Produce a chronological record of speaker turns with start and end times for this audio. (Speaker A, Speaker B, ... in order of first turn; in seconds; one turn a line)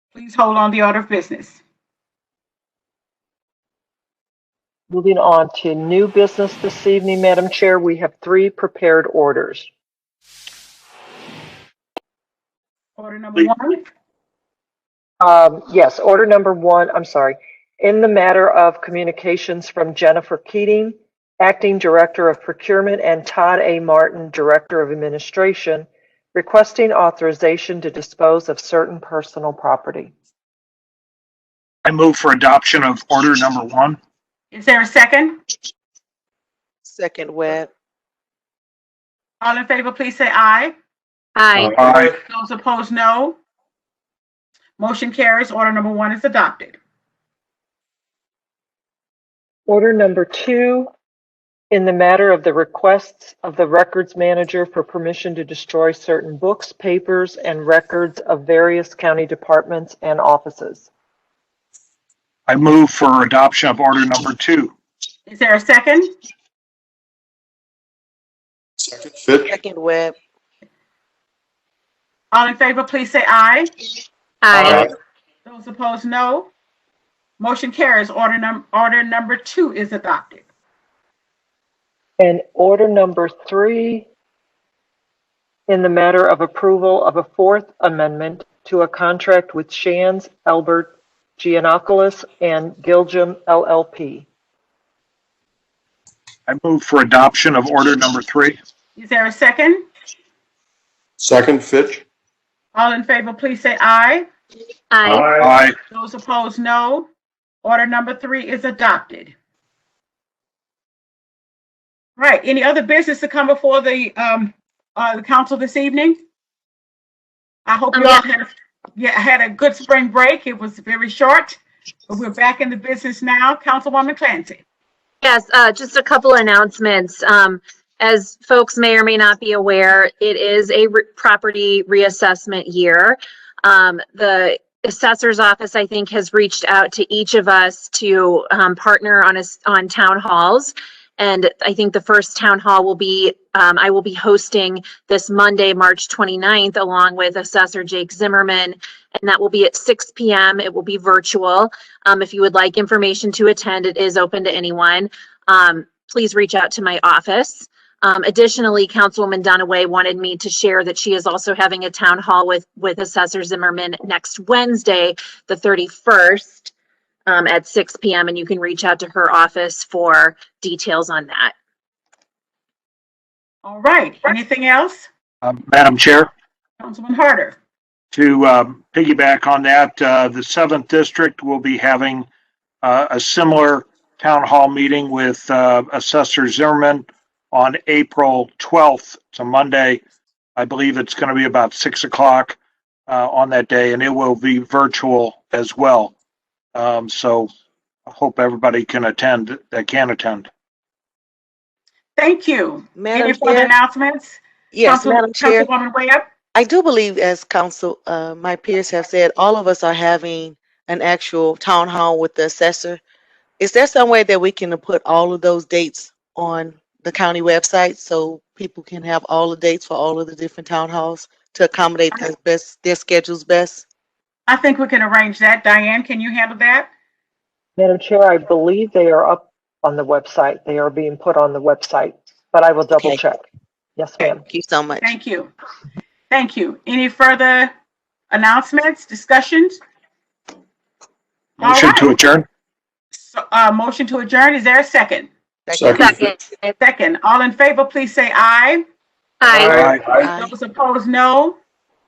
Speaker A: 0.1-1.6
Speaker B: 4.9-9.7
Speaker A: 13.0-13.8
Speaker B: 15.2-30.1
Speaker C: 31.8-34.0
Speaker A: 34.5-35.4
Speaker D: 36.8-37.7
Speaker A: 39.4-40.7
Speaker E: 41.4-41.8
Speaker C: 41.8-42.1
Speaker A: 41.8-43.4
Speaker A: 44.8-46.8
Speaker B: 49.7-50.9
Speaker B: 51.7-60.9
Speaker C: 62.5-64.7
Speaker A: 65.3-66.1
Speaker F: 68.8-69.6
Speaker D: 69.5-70.2
Speaker A: 72.3-73.7
Speaker E: 74.4-74.9
Speaker F: 74.5-74.9
Speaker A: 75.4-76.5
Speaker A: 77.4-80.4
Speaker B: 82.2-84.1
Speaker B: 85.7-94.3
Speaker C: 96.5-98.6
Speaker A: 98.9-99.8
Speaker F: 101.2-102.0
Speaker A: 102.7-104.3
Speaker E: 104.9-105.3
Speaker F: 105.0-105.5
Speaker C: 105.3-105.8
Speaker A: 105.9-107.1
Speaker A: 107.6-109.3
Speaker A: 112.2-116.2
Speaker A: 117.7-124.6
Speaker E: 117.9-118.2
Speaker E: 125.2-166.7
Speaker E: 167.3-171.5
Speaker A: 173.6-175.1
Speaker C: 175.4-176.3
Speaker A: 176.8-177.6
Speaker C: 178.1-182.3
Speaker C: 182.8-190.0
Speaker C: 190.6-196.1
Speaker C: 196.7-197.5
Speaker C: 198.1-200.5
Speaker A: 202.1-206.3
Speaker D: 202.9-203.7
Speaker D: 204.7-205.7
Speaker D: 206.5-213.0
Speaker D: 213.6-223.8
Speaker A: 224.5-226.9
Speaker B: 227.8-233.4
Speaker D: 232.9-233.2
Speaker B: 234.0-234.4
Speaker D: 234.2-235.1
Speaker A: 235.0-235.5
Speaker A: 236.3-237.7
Speaker A: 238.3-239.8
Speaker A: 241.6-242.2
Speaker C: 241.6-242.4
Speaker A: 243.1-245.3
Speaker D: 245.7-246.2
Speaker F: 245.7-246.2
Speaker E: 246.0-246.7
Speaker A: 246.8-248.8
Speaker E: 249.4-249.8
Speaker C: 249.6-250.1
Speaker D: 249.8-250.5
Speaker A: 250.1-251.6